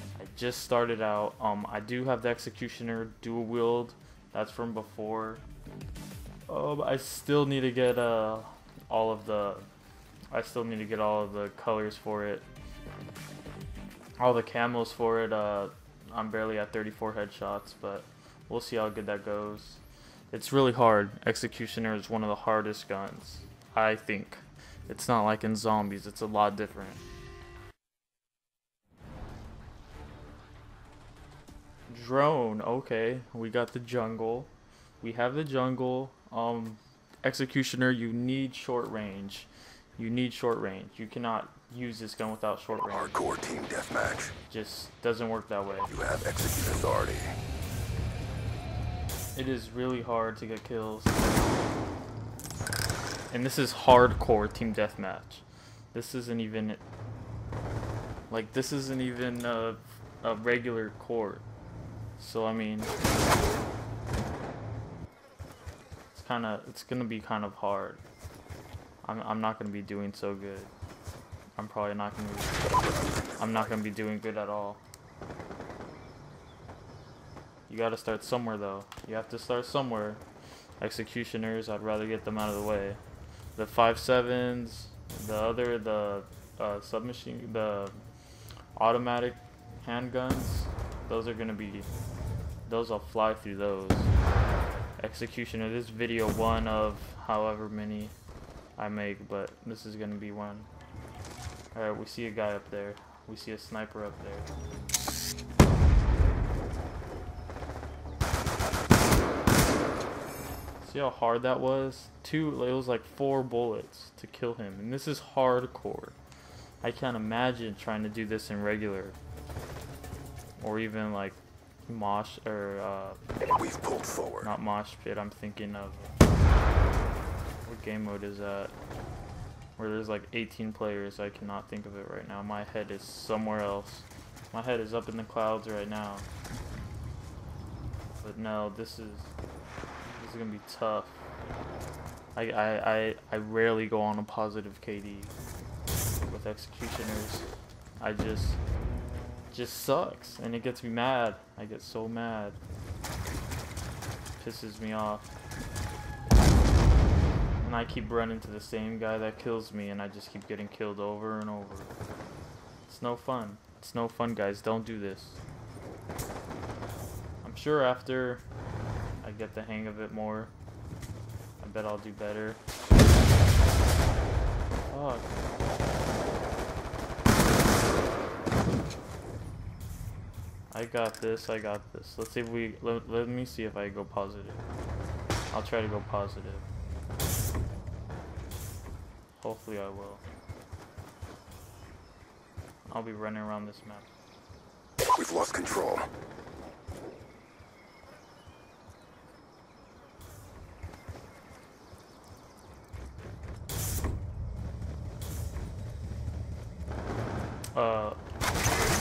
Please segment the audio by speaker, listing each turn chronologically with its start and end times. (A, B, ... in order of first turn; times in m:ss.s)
0:00.2-0:05.4 A
0:06.5-0:09.7 A
0:10.3-0:12.5 A
0:14.2-0:19.8 A
0:20.3-0:27.0 A
0:31.9-0:43.2 A
0:42.9-0:44.3 B
0:44.5-0:45.9 A
0:45.9-0:47.4 B
0:49.4-0:51.5 A
0:53.3-0:56.8 A
0:58.3-1:01.4 A
1:02.2-1:02.9 A
1:06.1-1:08.0 A
1:09.0-1:10.7 A
1:11.6-1:12.7 A
1:12.8-1:13.8 B
1:13.4-1:14.8 A
1:17.7-1:20.2 A
1:20.8-1:23.0 A
1:23.6-1:28.0 A
1:28.8-1:31.9 A
1:32.7-1:34.1 A
1:35.0-1:38.2 A
1:38.8-1:40.7 A
1:41.7-1:44.5 A
1:50.8-1:56.2 A
1:56.8-1:59.2 A
2:00.6-2:03.2 A
2:03.6-2:04.5 B
2:04.4-2:06.2 A
2:07.6-2:08.7 A
2:09.8-2:16.3 A
2:18.2-2:19.3 A
2:20.2-2:21.3 A
2:22.4-2:25.4 A
2:26.3-2:27.5 A
2:28.0-2:28.6 A
2:29.5-2:32.6 A
2:34.4-2:35.3 A
2:37.6-2:41.9 A
2:42.9-2:45.4 A
2:47.4-2:48.4 A
2:49.2-2:50.5 A
2:51.6-2:52.6 A
2:54.9-2:55.3 A
3:00.7-3:04.6 A
3:05.5-3:06.7 A
3:09.4-3:10.2 A
3:12.9-3:14.1 A
3:15.2-3:16.1 B
3:27.7-3:28.2 A